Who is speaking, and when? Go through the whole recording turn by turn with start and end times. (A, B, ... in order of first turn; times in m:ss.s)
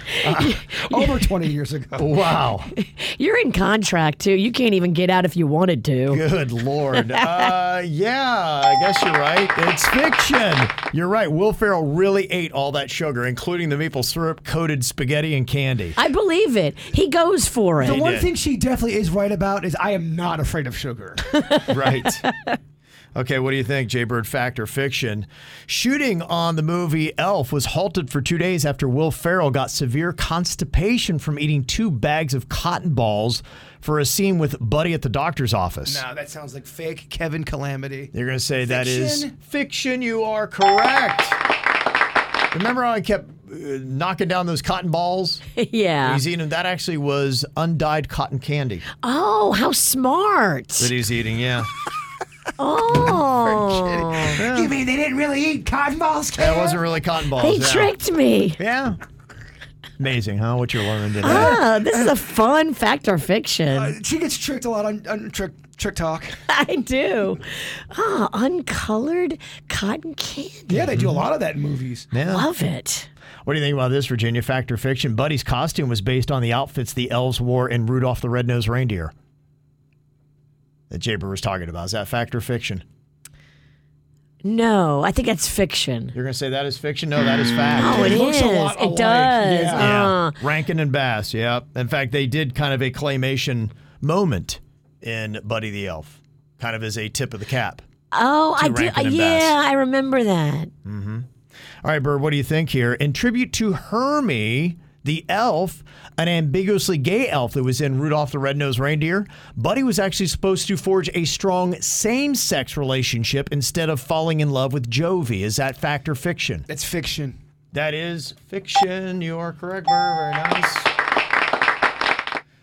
0:00.1-0:00.8 A
0:00.2-0:02.2 B
0:02.0-0:02.7 C
0:02.8-0:06.2 A
0:06.1-0:16.0 C
0:06.9-0:07.3 A
0:16.0-0:18.0 A
0:17.8-0:21.4 B
0:17.8-0:18.3 C
0:21.5-0:22.5 A
0:21.7-0:22.2 C
0:23.1-0:36.0 C
0:35.8-0:39.3 B
0:38.1-0:41.4 C
0:42.5-0:45.4 C
0:45.6-0:46.2 A
0:46.0-0:48.8 C
0:49.0-0:50.9 A
0:50.8-0:51.7 C
0:52.6-0:54.4 A
0:52.9-0:56.8 B
0:54.3-0:54.7 C
0:56.4-0:57.9 C
0:57.4-0:58.6 A
0:58.6-0:59.0 C
1:00.0-1:01.6 C
1:01.2-1:03.9 A
1:01.2-1:02.2 B
1:03.7-1:06.3 B
1:06.5-1:10.9 A
1:10.7-1:12.1 B
1:10.9-1:11.2 C
1:12.1-1:12.5 C
1:12.2-1:13.1 A
1:13.4-1:19.1 C
1:20.9-1:22.8 C
1:24.4-1:26.1 A
1:26.1-1:28.2 C
1:27.7-1:29.9 B
1:27.7-1:30.4 A
1:29.8-1:37.8 C
1:38.1-1:40.7 A
1:38.6-1:39.6 C
1:40.8-1:41.3 C
1:41.8-1:56.6 C
1:56.7-1:57.4 B
1:57.7-2:00.9 C